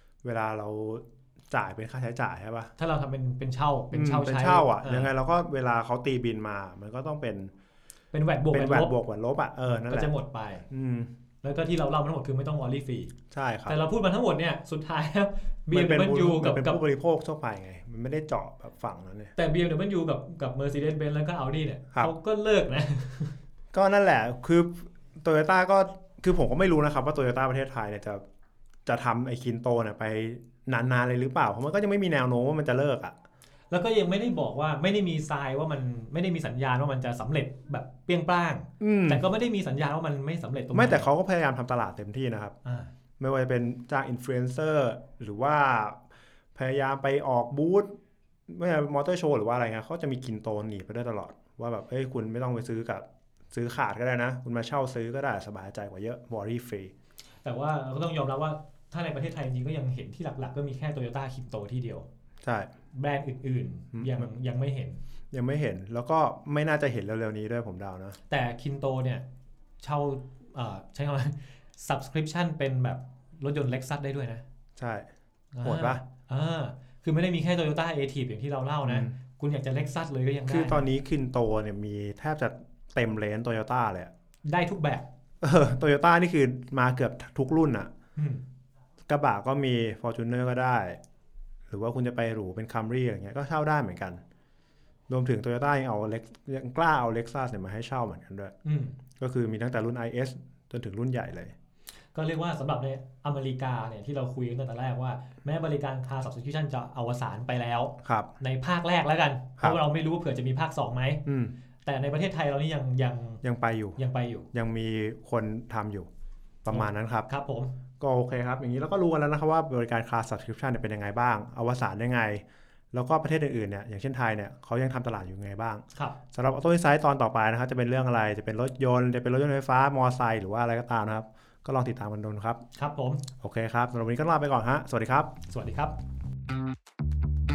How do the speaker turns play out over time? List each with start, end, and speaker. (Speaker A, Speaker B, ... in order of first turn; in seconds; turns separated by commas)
Speaker A: 0.2-2.7, Speaker B: 2.8-5.1, Speaker A: 3.9-7.5, Speaker B: 8.1-8.9, Speaker A: 8.5-10.1, Speaker B: 9.7-10.7, Speaker A: 10.7-11.1, Speaker B: 11.4-13.1, Speaker A: 13.3-13.8, Speaker B: 13.7-16.8, Speaker A: 15.7-19.3, Speaker B: 19.4-23.3, Speaker A: 23.7-28.2, Speaker A: 28.9-33.1, Speaker B: 33.7-41.1, Speaker A: 38.8-39.3, Speaker A: 40.7-42.5, Speaker B: 42.6-42.9, Speaker A: 43.2-46.0, Speaker A: 46.5-47.9, Speaker A: 48.5-56.9, Speaker B: 57.4-62.1, Speaker A: 62.4-62.7, Speaker B: 62.9-65.0, Speaker A: 63.9-64.3, Speaker A: 65.3-68.2, Speaker B: 68.3-69.2, Speaker B: 69.8-74.4, Speaker A: 74.8-75.1, Speaker B: 75.5-80.9, Speaker A: 75.6-76.0, Speaker A: 78.8-79.2, Speaker A: 80.5-84.1, Speaker B: 84.5-85.0, Speaker A: 85.4-87.9, Speaker B: 88.2-88.4, Speaker A: 89.1-91.0, Speaker A: 91.7-94.2, Speaker A: 95.1-98.5, Speaker B: 98.7-99.0, Speaker A: 99.2-101.5, Speaker B: 102.1-111.2, Speaker A: 108.0-108.3, Speaker A: 111.3-111.5, Speaker B: 111.8-113.4, Speaker A: 113.4-114.0, Speaker B: 114.0-114.5, Speaker A: 114.5-116.1, Speaker A: 116.6-117.3, Speaker B: 116.7-117.7, Speaker A: 118.0-132.6, Speaker B: 132.8-133.2, Speaker A: 133.4-135.3, Speaker B: 135.5-136.0